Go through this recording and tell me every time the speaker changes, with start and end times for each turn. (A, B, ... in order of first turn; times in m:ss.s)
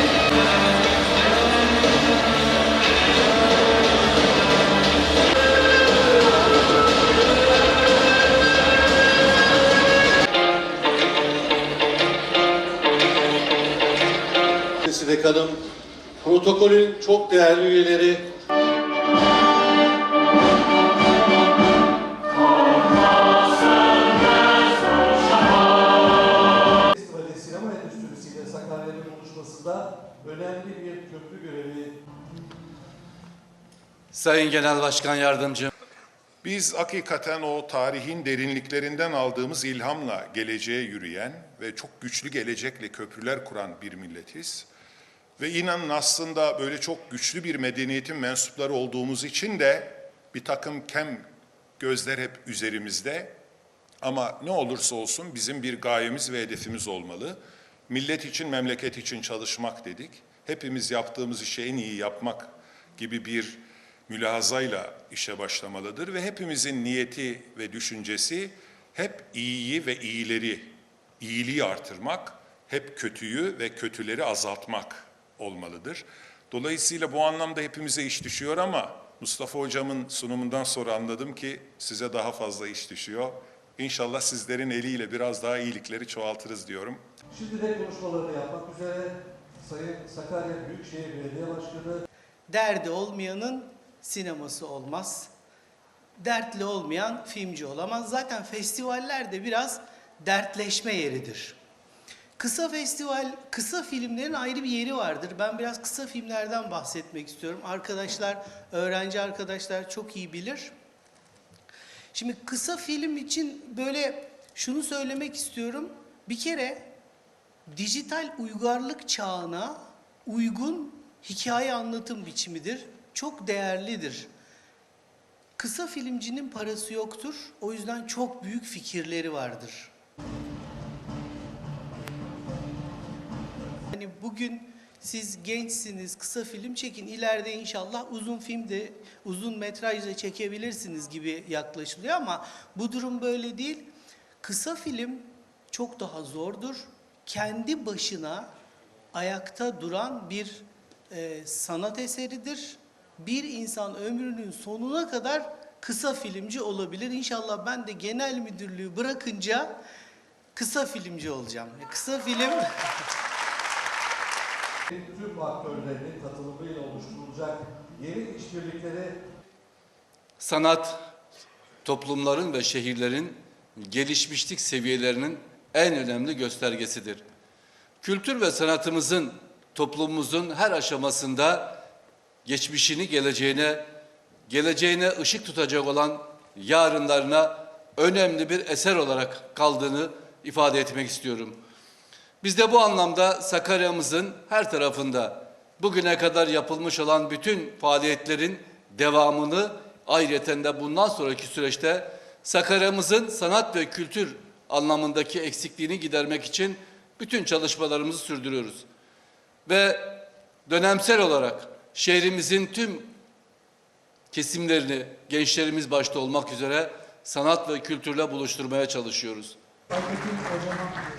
0:14.8-0:15.6 A
0:16.2-0:18.3 A
0:26.8-0:32.0 B
0:34.1-0:35.7 C
0:36.4-0:44.7 D
0:45.4-0:51.3 D
0:51.8-0:53.4 D
0:54.0-1:27.0 D
1:27.3-1:32.0 B
1:32.5-1:35.3 E
1:36.2-1:41.6 E
1:42.4-1:50.7 E
1:52.1-1:56.9 E
1:57.7-2:04.3 E
2:05.6-2:09.9 E
2:13.9-2:28.5 E
2:29.1-2:39.8 E
2:40.5-2:42.9 E
2:44.9-2:49.2 B
2:50.4-2:51.0 C
2:51.8-2:57.2 C
2:58.0-3:01.8 C
3:02.4-3:03.9 C
3:04.5-3:11.6 C
3:12.4-3:28.9 C
3:29.7-3:33.2 C
3:34.3-3:39.6 C
3:39.9-3:41.0 B